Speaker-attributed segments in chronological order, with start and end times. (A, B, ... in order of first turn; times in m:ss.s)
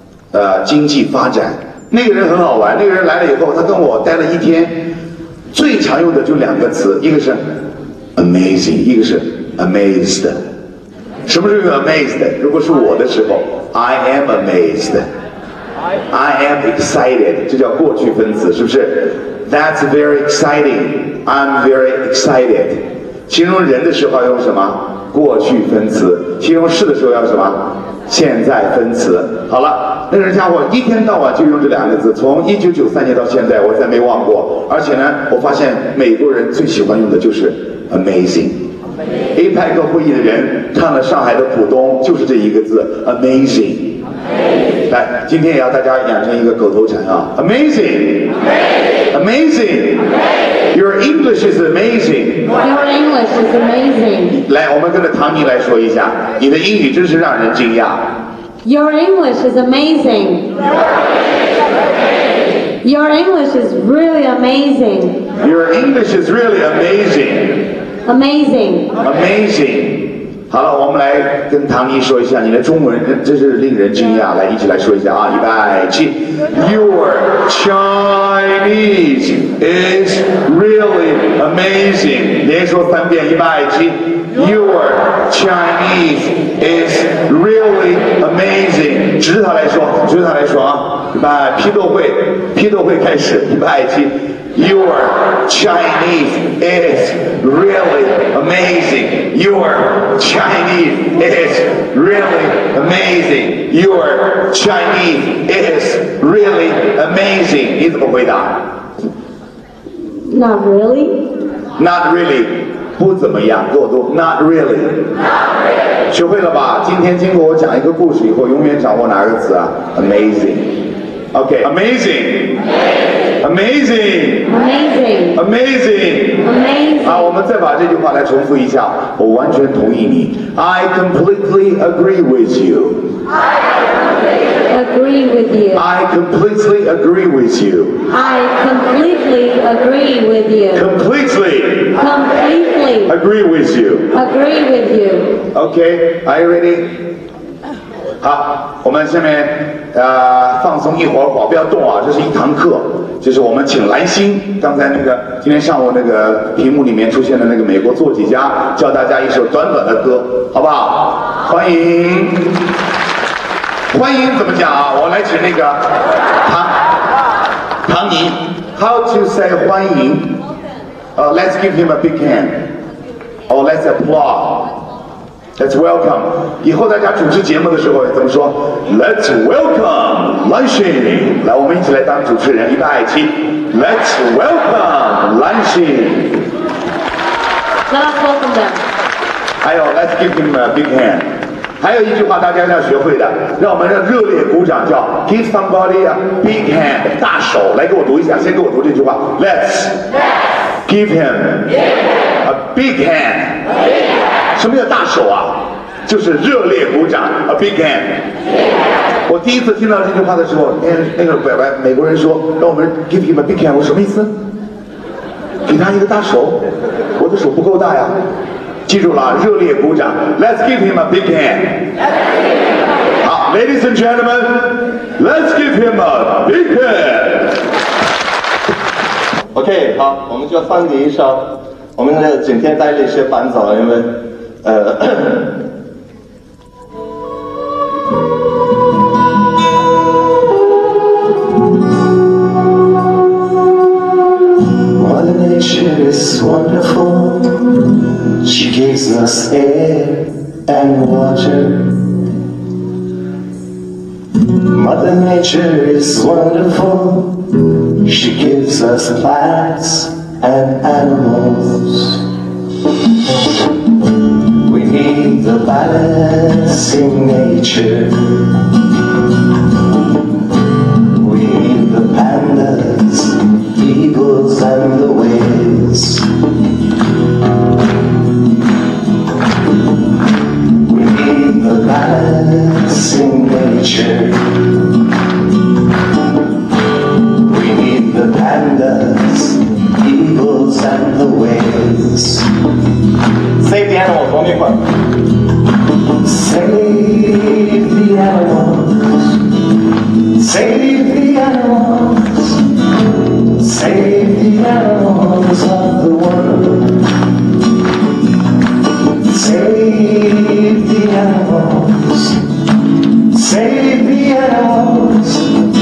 0:00.3-0:05.0 A
0:05.5-0:07.6 A
0:08.2-0:10.4 A
0:11.3-0:15.1 A
0:16.1-0:38.7 A
0:39.3-0:44.0 A
0:44.9-0:48.3 A
0:49.1-0:50.1 A
0:50.7-0:52.5 A
0:52.6-0:54.4 B
0:54.3-0:58.1 A
0:58.6-1:00.6 B
1:02.8-1:05.2 B
1:05.4-1:07.7 A
1:08.0-1:08.9 B
1:09.0-1:48.7 A
1:50.0-1:51.3 B
1:51.8-1:55.1 A
1:56.1-2:00.8 A
2:01.3-2:02.6 A
2:03.4-2:04.5 A
2:04.5-2:05.4 B
2:05.4-2:06.5 A
2:06.4-2:07.4 B
2:07.0-2:13.2 A
2:14.7-2:15.9 B
2:15.7-2:18.1 A
2:18.1-2:20.9 B
2:20.7-2:22.0 A
2:22.0-2:23.1 B
2:23.1-2:24.1 A
2:24.1-2:25.4 B
2:25.5-2:27.0 A
2:28.2-2:42.6 A
2:43.9-2:46.8 A
2:47.8-2:50.4 A
2:51.1-2:52.7 A
2:53.5-2:54.7 A
2:55.6-3:06.4 A
3:07.9-3:08.8 B
3:09.6-3:20.0 A
3:20.9-3:21.7 A
3:22.4-3:23.6 A
3:24.6-3:28.3 A
3:29.3-3:34.4 A
3:35.6-3:36.6 A
3:37.2-3:38.2 A
3:38.9-3:41.9 A
3:43.2-3:47.6 A
3:49.5-3:51.4 C
3:52.0-3:55.5 C
4:04.8-4:12.0 D
4:14.6-4:22.2 D
4:24.6-4:28.6 D
4:31.2-4:36.3 D
4:40.8-4:44.6 D
4:47.4-4:52.5 D
4:53.6-4:54.8 C
4:56.2-4:59.4 D
5:00.3-5:02.6 D
5:03.4-5:07.1 D
5:09.2-5:12.4 D
5:13.3-5:15.6 D